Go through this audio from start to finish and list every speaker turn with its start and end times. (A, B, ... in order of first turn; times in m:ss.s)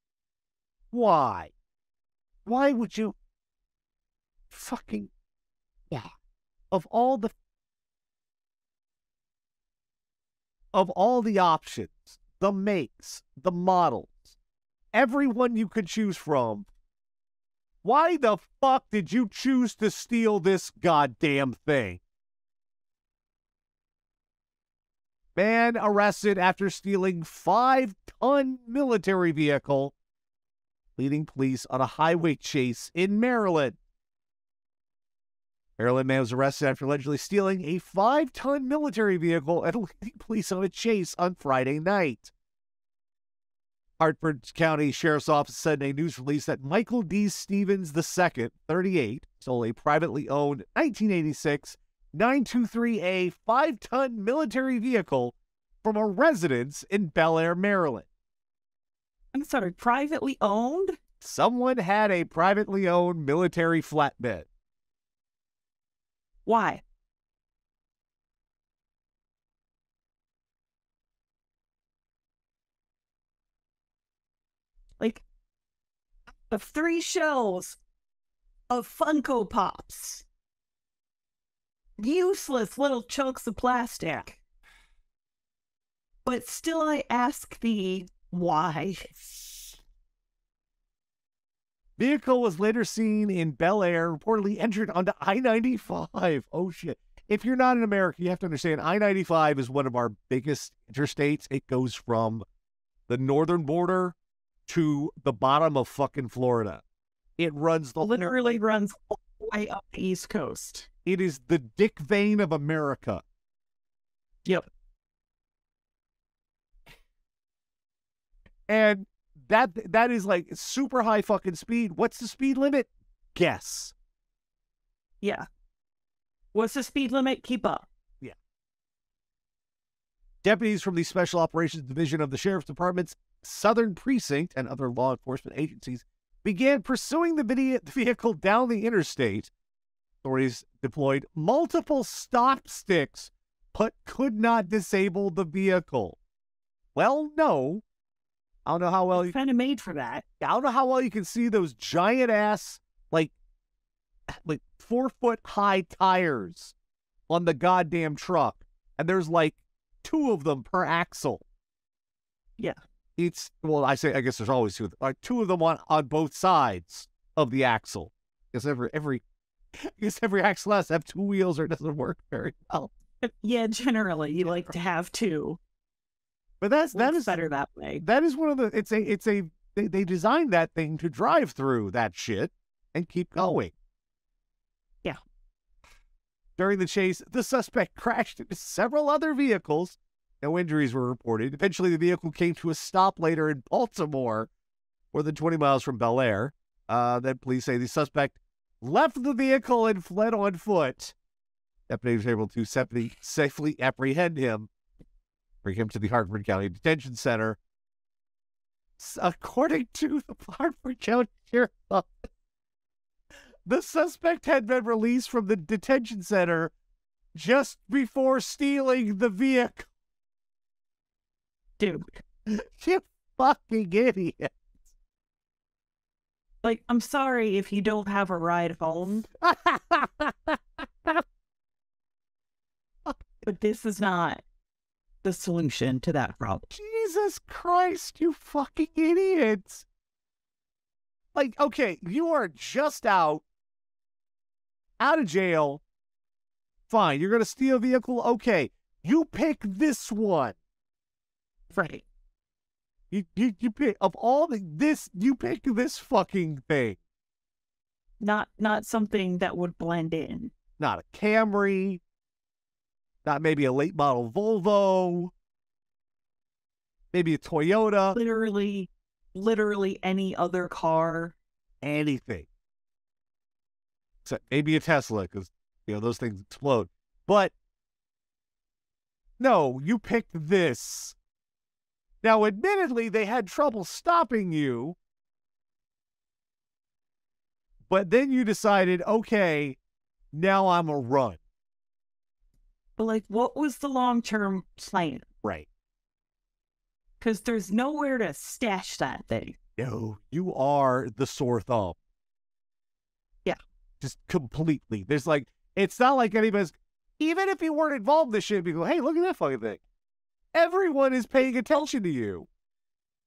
0:00.9-0:01.5 A
0:02.4-0:03.1 A
0:04.5-0:05.1 A
0:06.7-0:07.3 A
0:10.7-0:14.3 A
0:14.9-0:16.7 A
0:17.8-0:22.0 A
0:25.4-0:29.9 A
0:31.0-0:33.8 A
0:35.8-0:42.3 A
0:44.0-0:58.0 A
0:59.3-1:01.0 B
1:01.2-1:04.5 A
1:06.4-1:06.8 B
1:16.5-1:17.8 B
1:18.7-1:20.2 B
1:22.0-1:24.4 B
1:26.2-1:29.3 B
1:32.0-1:42.4 A
1:43.1-1:44.2 A
1:44.7-1:46.8 A
1:47.4-1:48.6 A
1:48.0-1:50.9 B
1:51.0-1:53.2 A
1:58.7-2:03.9 A
2:06.5-2:07.8 B
2:10.4-2:19.5 A
2:20.2-2:26.2 A
2:26.9-2:27.8 A
2:28.6-2:29.3 A
2:29.1-2:30.2 B
2:30.4-2:33.3 A
2:34.3-2:36.7 A
2:37.3-2:41.4 A
2:43.2-2:49.2 A
2:49.8-2:52.9 A
2:53.2-2:55.6 B
2:56.6-2:57.4 A
2:56.9-2:58.0 B
2:58.0-3:03.7 A
3:06.6-3:14.5 A
3:15.1-3:21.1 A
3:21.9-3:24.7 A
3:25.6-3:27.6 A
3:29.0-3:32.1 A
3:33.6-3:36.7 A
3:37.3-3:39.9 A
3:41.8-3:42.1 B
3:42.5-3:44.5 A
3:46.6-3:49.3 B
3:49.4-3:51.2 A
3:53.0-3:53.4 A
3:53.4-3:54.4 B
3:55.2-3:56.7 B
3:56.7-3:59.8 A
4:01.3-4:03.4 A
4:05.0-4:05.8 A
4:06.9-4:10.5 A
4:11.7-4:12.0 B
4:13.1-4:17.0 A
4:18.2-4:20.5 B
4:20.8-4:22.0 A
4:23.2-4:25.3 A
4:27.1-4:28.2 A
4:28.1-4:31.3 B
4:31.8-4:32.5 A
4:34.2-4:37.5 A
4:39.4-4:41.2 A
4:42.2-4:45.0 A
4:47.9-4:49.8 A
4:50.3-4:51.4 A
4:53.0-4:55.2 B
4:57.2-4:59.6 B
4:59.8-5:02.0 A
5:04.0-5:09.8 A
5:10.5-5:12.5 A